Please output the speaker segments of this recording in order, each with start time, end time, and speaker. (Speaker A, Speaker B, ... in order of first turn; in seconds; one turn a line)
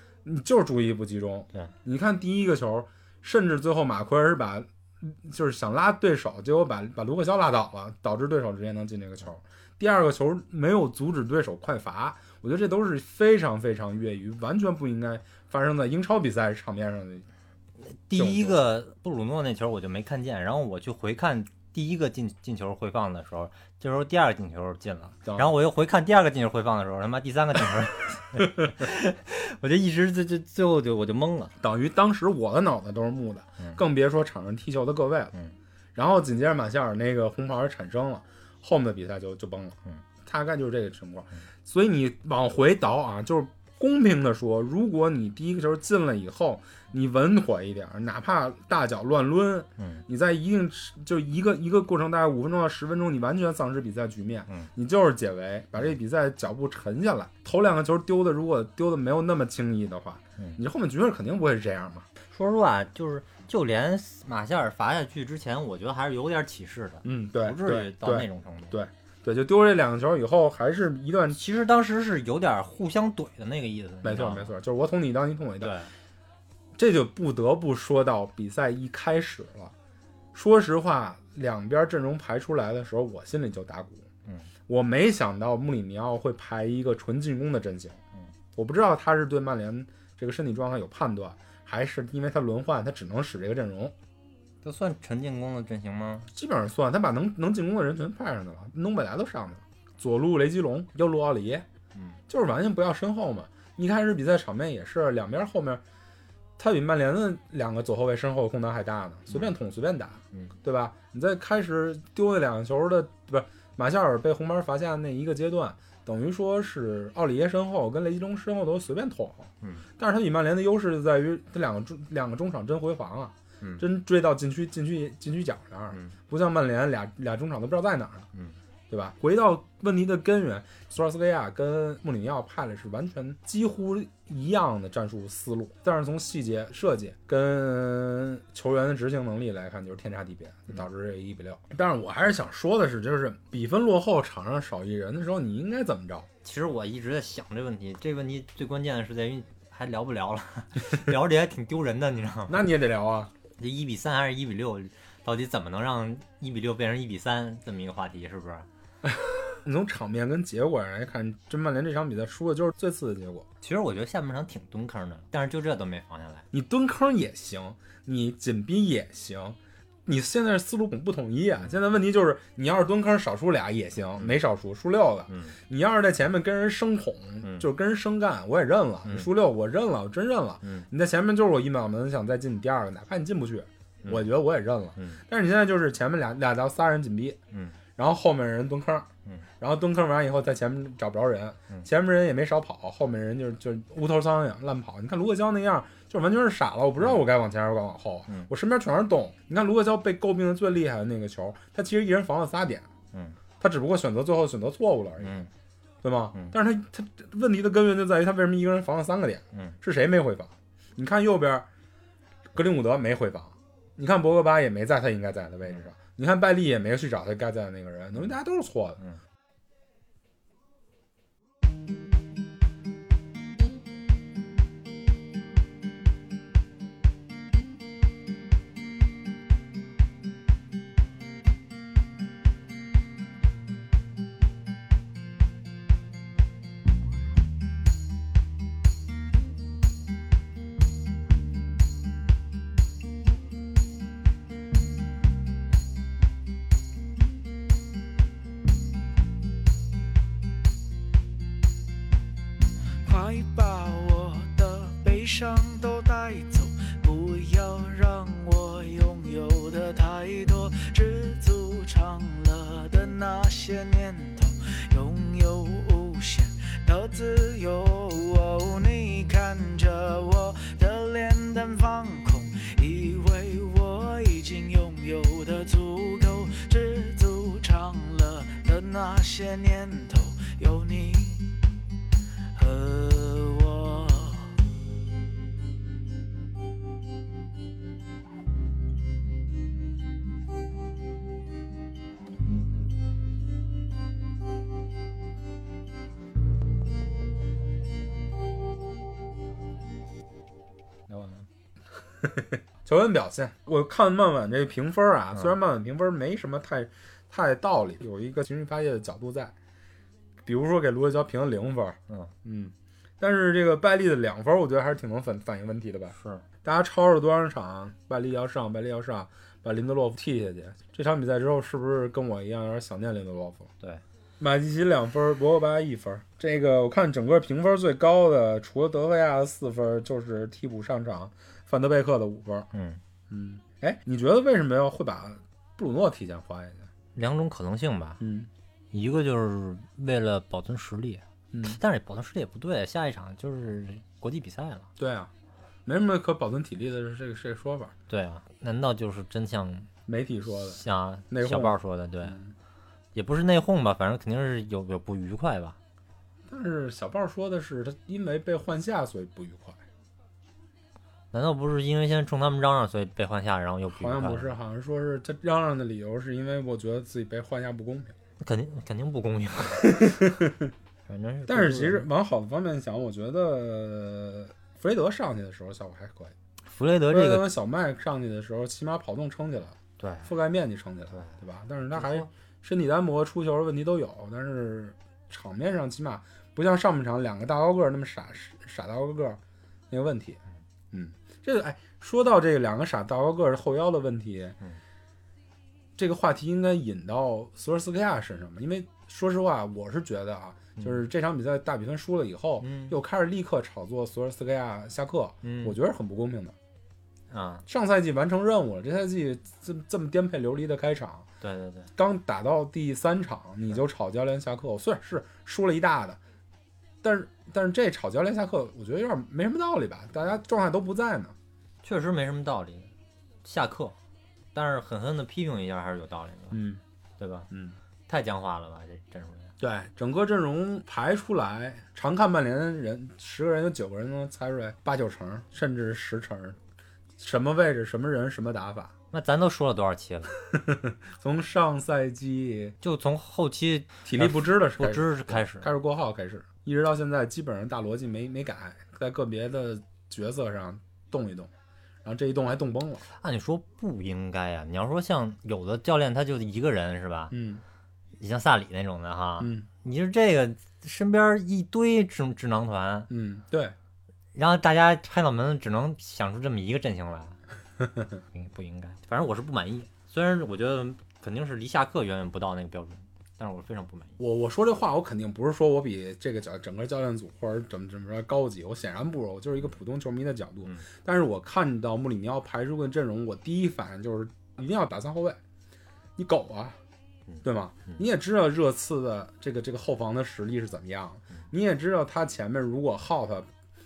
Speaker A: 0.2-17.3
Speaker B: 17.9-31.5
Speaker A: 18.1-18.6
Speaker A: 25.2-25.5
Speaker A: 31.6-35.4
Speaker A: 36.0-62.1
Speaker B: 49.8-50.0
Speaker B: 62.3-68.8
Speaker A: 67.0-71.4
Speaker B: 71.3-74.5
Speaker A: 74.0-75.8
Speaker B: 75.6-75.9
Speaker A: 76.8-79.7
Speaker A: 80.3-84.1
Speaker A: 84.7-88.0
Speaker A: 88.5-94.0
Speaker B: 94.6-96.3
Speaker A: 96.3-101.7
Speaker A: 102.3-105.8
Speaker A: 106.6-128.3
Speaker A: 128.9-146.3
Speaker B: 146.4-152.6
Speaker A: 152.5-153.3
Speaker B: 153.6-158.7
Speaker A: 159.2-163.5
Speaker B: 163.6-166.5
Speaker A: 166.5-187.4
Speaker B: 175.3-175.6
Speaker B: 179.1-179.3
Speaker B: 184.0-184.3
Speaker B: 185.0-185.2
Speaker B: 187.5-187.8
Speaker A: 188.0-189.1
Speaker A: 189.6-202.9
Speaker A: 203.6-205.5
Speaker B: 205.2-205.5
Speaker A: 206.0-211.7
Speaker A: 212.5-219.0
Speaker C: 253.1-281.6
Speaker C: 282.6-284.5
Speaker B: 301.1-301.5
Speaker A: 302.2-309.6
Speaker A: 310.4-323.7
Speaker B: 316.2-316.4
Speaker A: 324.4-332.7
Speaker B: 332.7-333.0
Speaker A: 333.3-336.9
Speaker B: 337.1-338.2
Speaker A: 338.2-338.5
Speaker B: 338.9-344.9
Speaker A: 341.5-341.8
Speaker A: 345.0-345.3
Speaker A: 345.9-347.9
Speaker B: 348.1-349.9
Speaker A: 350.1-352.5
Speaker B: 350.7-352.4
Speaker B: 353.1-355.8
Speaker A: 356.5-359.8
Speaker B: 361.3-364.5
Speaker A: 363.9-368.2
Speaker B: 368.4-370.2
Speaker A: 369.8-370.7
Speaker B: 371.1-372.1
Speaker A: 371.5-376.4
Speaker B: 376.7-377.5
Speaker A: 377.1-389.4
Speaker B: 380.0-380.3
Speaker B: 381.9-382.3
Speaker A: 389.9-390.4
Speaker A: 390.9-394.6
Speaker A: 396.0-406.6
Speaker B: 400.8-401.0
Speaker B: 402.6-403.0
Speaker B: 405.4-405.8
Speaker B: 407.3-407.6
Speaker A: 407.7-411.3
Speaker B: 411.4-411.9
Speaker A: 412.0-416.2
Speaker A: 417.0-421.4
Speaker B: 421.8-422.9
Speaker B: 423.4-424.0
Speaker B: 424.5-426.6
Speaker A: 426.5-426.8
Speaker B: 427.2-427.5
Speaker A: 427.5-427.8
Speaker B: 428.1-429.5
Speaker A: 429.6-436.6
Speaker A: 437.2-438.9
Speaker B: 439.1-440.3
Speaker A: 440.5-442.8
Speaker B: 442.8-445.7
Speaker A: 444.1-451.5
Speaker A: 452.0-453.1
Speaker B: 453.2-457.4
Speaker A: 457.3-457.6
Speaker B: 458.2-463.1
Speaker A: 459.4-459.7
Speaker A: 463.1-463.8
Speaker B: 464.4-467.4
Speaker B: 468.3-474.2
Speaker A: 474.2-485.4
Speaker A: 486.2-486.8
Speaker B: 487.3-488.0
Speaker A: 487.4-493.5